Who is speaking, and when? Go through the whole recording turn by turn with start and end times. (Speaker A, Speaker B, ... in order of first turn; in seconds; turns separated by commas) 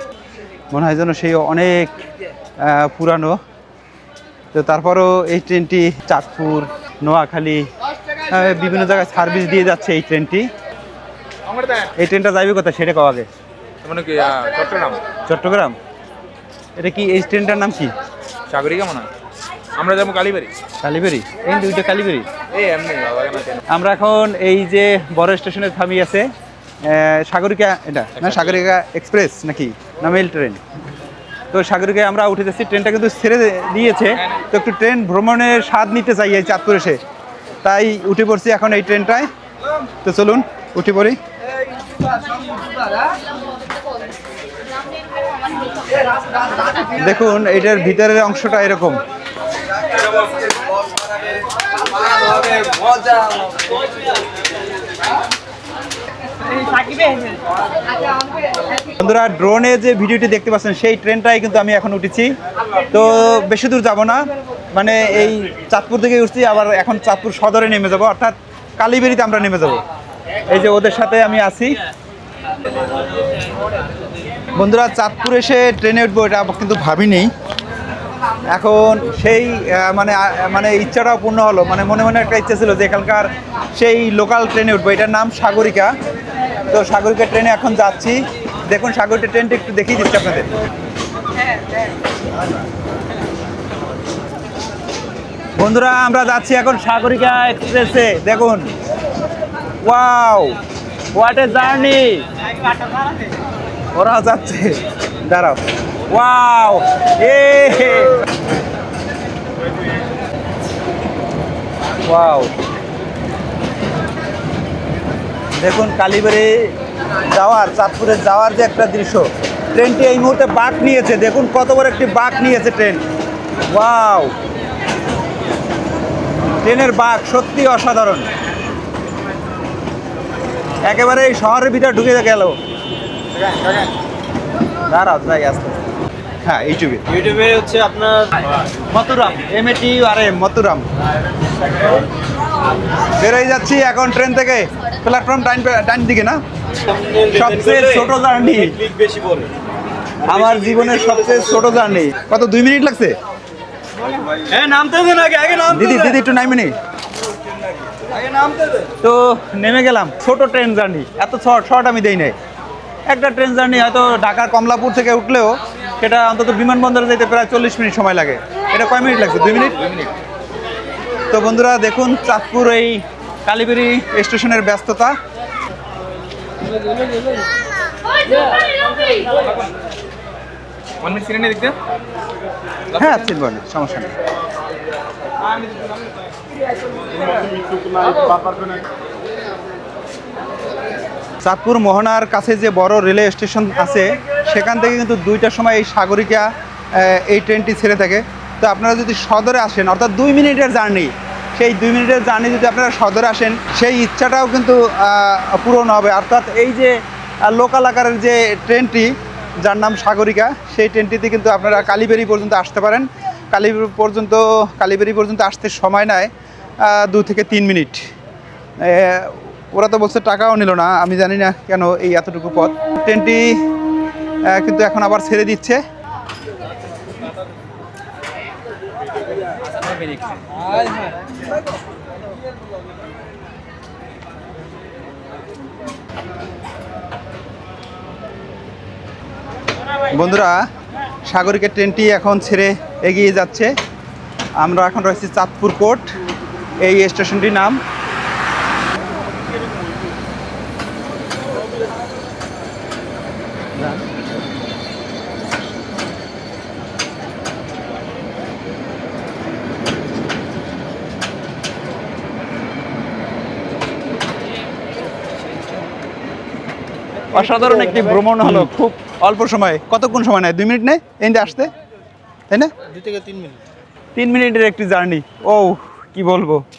Speaker A: 0.7-1.9, Speaker A: 2.6-3.4, Speaker A: 4.5-7.6, Speaker A: 8.3-10.5, Speaker A: 12.0-13.3, Speaker B: 13.8-15.0, Speaker A: 15.3-15.8, Speaker A: 16.8-17.9, Speaker B: 18.5-19.1, Speaker B: 19.8-20.5, Speaker A: 20.8-22.3, Speaker C: 22.5-23.6, Speaker B: 22.6-23.4, Speaker A: 23.7-26.3, Speaker A: 26.8-30.6, Speaker A: 31.5-37.0, Speaker A: 37.6-39.3, Speaker A: 40.0-41.2, Speaker A: 46.9-49.0, Speaker A: 58.9-62.3, Speaker A: 62.9-69.8, Speaker A: 70.5-71.8, Speaker A: 74.6-77.3, Speaker A: 78.5-85.9, Speaker A: 86.7-90.5, Speaker A: 95.6-98.7, Speaker A: 99.8-100.6, Speaker A: 101.1-102.2, Speaker A: 103.9-104.8, Speaker A: 105.3-105.6, Speaker A: 106.1-108.2, Speaker A: 112.1-112.5, Speaker A: 115.6-116.7, Speaker A: 117.3-123.0, Speaker A: 123.7-124.3, Speaker A: 126.6-128.2, Speaker A: 130.8-132.6, Speaker A: 134.9-135.8, Speaker A: 136.4-137.1, Speaker C: 137.1-138.4, Speaker A: 138.9-140.8, Speaker A: 143.2-146.4, Speaker C: 146.9-148.1, Speaker A: 147.3-148.8, Speaker C: 148.8-149.5, Speaker A: 150.2-153.2, Speaker C: 154.2-156.1, Speaker A: 155.7-156.7, Speaker A: 159.0-162.3, Speaker A: 163.1-170.1, Speaker A: 171.3-175.1, Speaker C: 181.0-181.8, Speaker A: 182.9-184.1, Speaker A: 191.4-218.1, Speaker A: 218.8-223.6, Speaker A: 224.5-225.8, Speaker A: 240.1-240.6, Speaker A: 241.2-243.7, Speaker A: 244.6-246.1, Speaker A: 246.8-247.8, Speaker A: 267.3-271.7, Speaker C: 273.0-273.5, Speaker A: 274.1-276.6